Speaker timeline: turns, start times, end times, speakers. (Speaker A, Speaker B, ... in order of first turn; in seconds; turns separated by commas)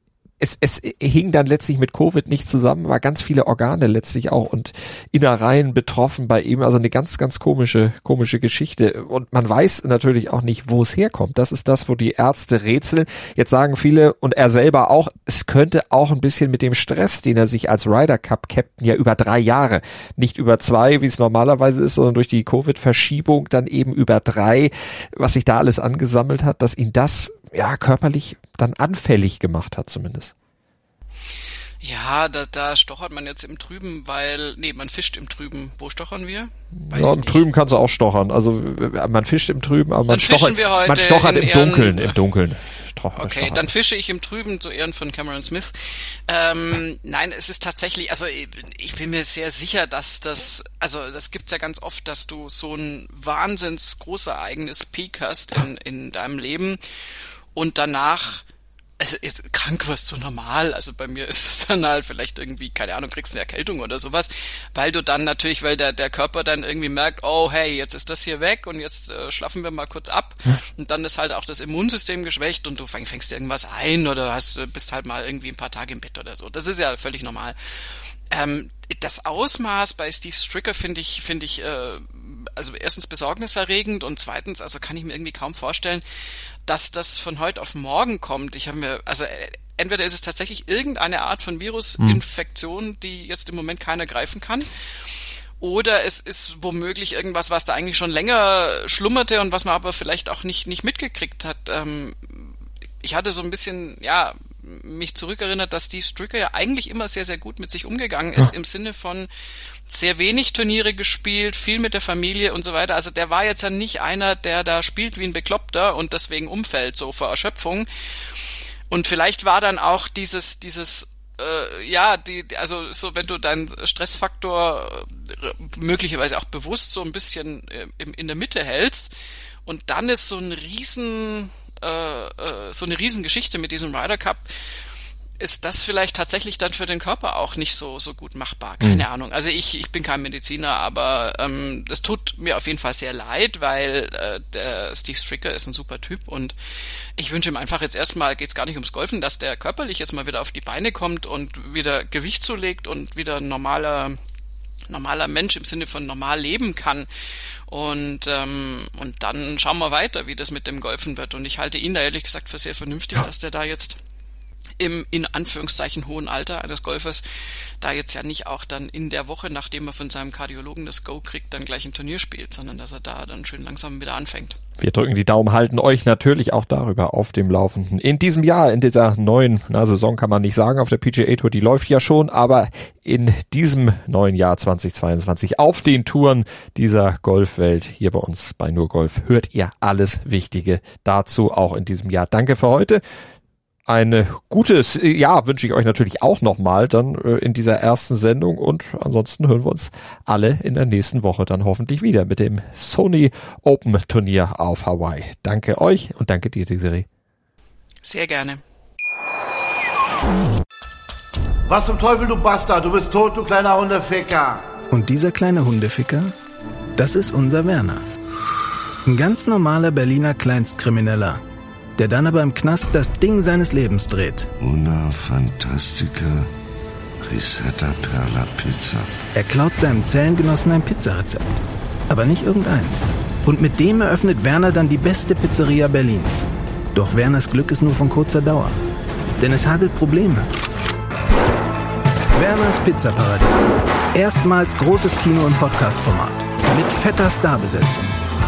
Speaker A: 0.4-30.3, Speaker B: 31.8-37.5, Speaker A: 36.9-43.6, Speaker B: 40.1-42.2, Speaker B: 43.2-56.8, Speaker B: 57.5-58.5, Speaker B: 59.0-77.6, Speaker B: 78.3-86.0, Speaker B: 86.7-94.7, Speaker B: 95.6-109.3, Speaker B: 109.9-117.9, Speaker B: 118.9-129.1, Speaker B: 129.7-134.4, Speaker B: 135.4-146.6, Speaker B: 147.2-154.2, Speaker B: 154.9-157.1, Speaker B: 157.7-164.0, Speaker B: 164.8-167.2, Speaker B: 167.8-174.6, Speaker A: 174.8-193.0, Speaker A: 193.9-207.1, Speaker B: 208.0-208.6, Speaker C: 211.7-214.6, Speaker D: 214.9-216.3, Speaker D: 217.0-218.0, Speaker D: 219.1-221.4, Speaker D: 222.0-224.5, Speaker E: 224.6-226.5, Speaker E: 227.2-229.1, Speaker D: 229.4-231.5, Speaker D: 232.1-238.8, Speaker D: 239.4-240.5, Speaker D: 242.3-248.1